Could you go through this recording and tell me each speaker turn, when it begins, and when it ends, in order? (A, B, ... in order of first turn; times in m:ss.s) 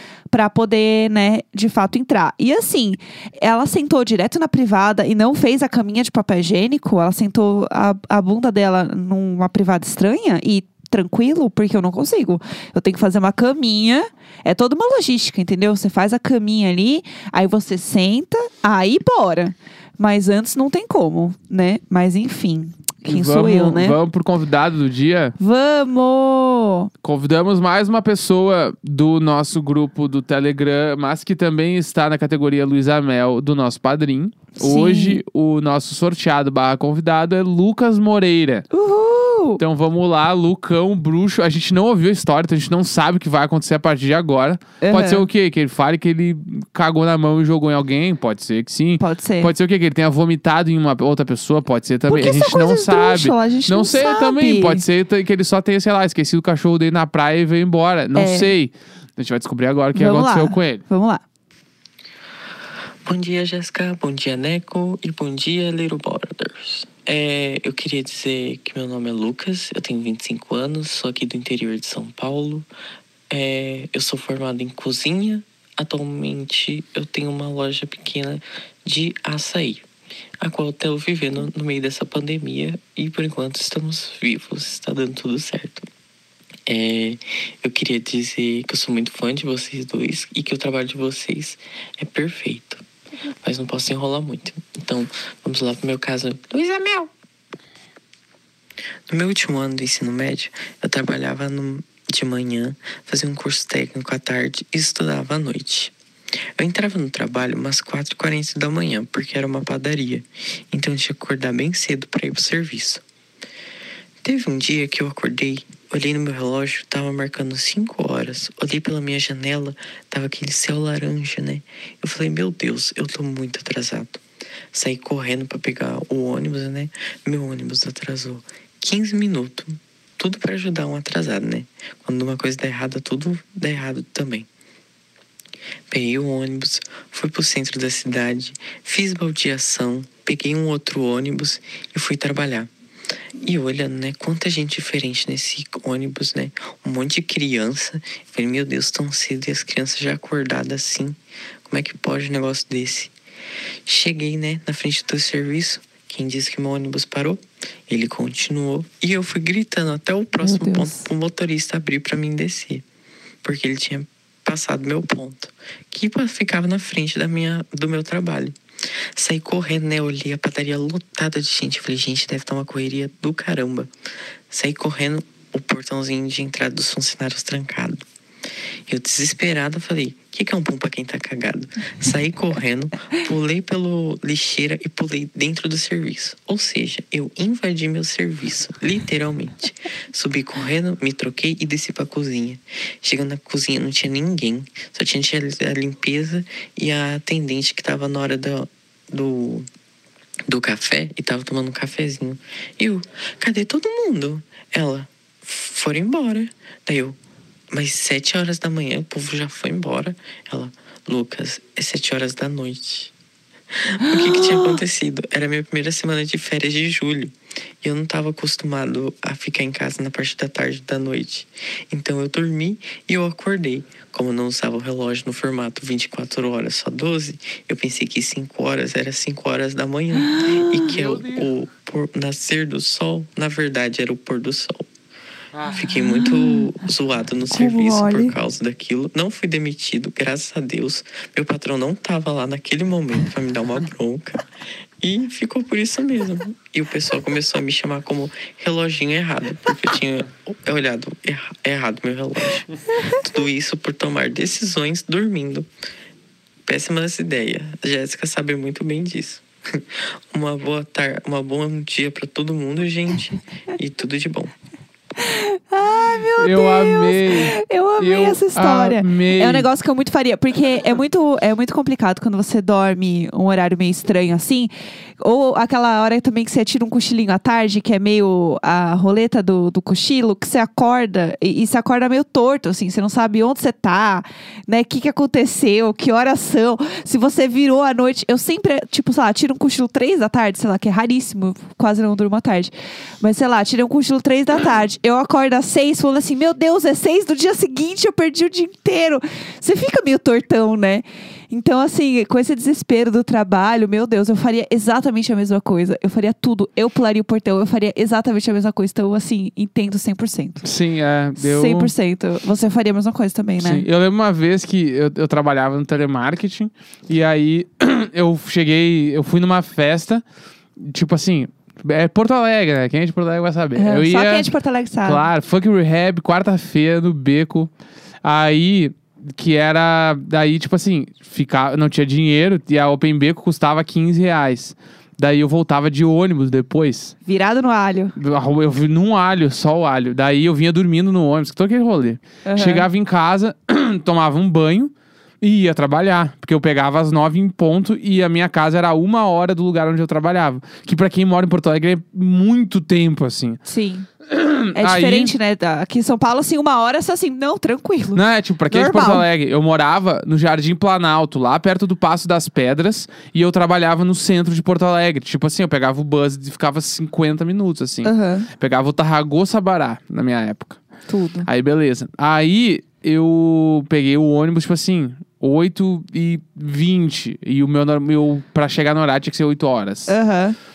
0:00.3-0:24.0 A
0:23.1-0:25.4 B
0:25.4-0:26.9 A
0:27.0-0:38.7 B
0:34.6-0:35.2 A
0:38.7-0:39.6 A
0:39.6-1:00.8 B
0:44.8-0:45.3 A
0:49.0-0:49.5 A
0:52.1-0:54.8 A
0:58.2-0:58.5 A
0:59.9-1:01.2 A
1:03.0-1:12.7 C
1:13.3-1:19.8 C
1:20.4-1:25.9 C
1:26.7-1:32.8 C
1:33.4-1:37.1 C
1:39.1-1:45.9 C
1:46.6-1:53.0 C
1:54.2-2:04.2 C
2:04.7-2:14.5 C
2:15.9-2:22.7 C
2:23.4-2:33.1 C
2:33.8-2:42.8 C
2:40.4-2:41.1 A
2:43.4-2:48.6 C
2:49.2-2:53.9 C
2:54.5-2:58.0 C
2:58.9-3:19.7 C
3:20.5-3:27.2 C
3:27.7-3:33.1 C
3:33.8-3:54.9 C
3:34.1-3:34.7 A
3:50.2-3:50.9 A
3:50.9-3:51.5 B
3:55.6-4:04.5 C
3:55.8-3:56.7 A
3:57.5-3:58.4 A
4:05.0-4:15.7 C
4:16.7-4:24.5 C
4:25.2-5:10.7 A
4:26.4-4:29.7 B
5:10.6-5:11.9 B
5:11.4-5:13.9 A
5:13.6-5:20.2 B
5:20.8-5:27.7 B
5:23.8-5:25.2 A
5:28.2-5:37.2 B
5:37.3-5:38.2 A
5:38.2-5:53.6 B
5:42.4-5:42.9 A
5:53.6-5:54.1 A
5:54.3-5:55.3 B
5:54.7-5:59.2 A
5:58.2-6:10.8 B
6:08.0-6:08.5 A
6:11.1-6:11.5 A
6:11.5-6:20.2 B
6:20.1-6:20.6 A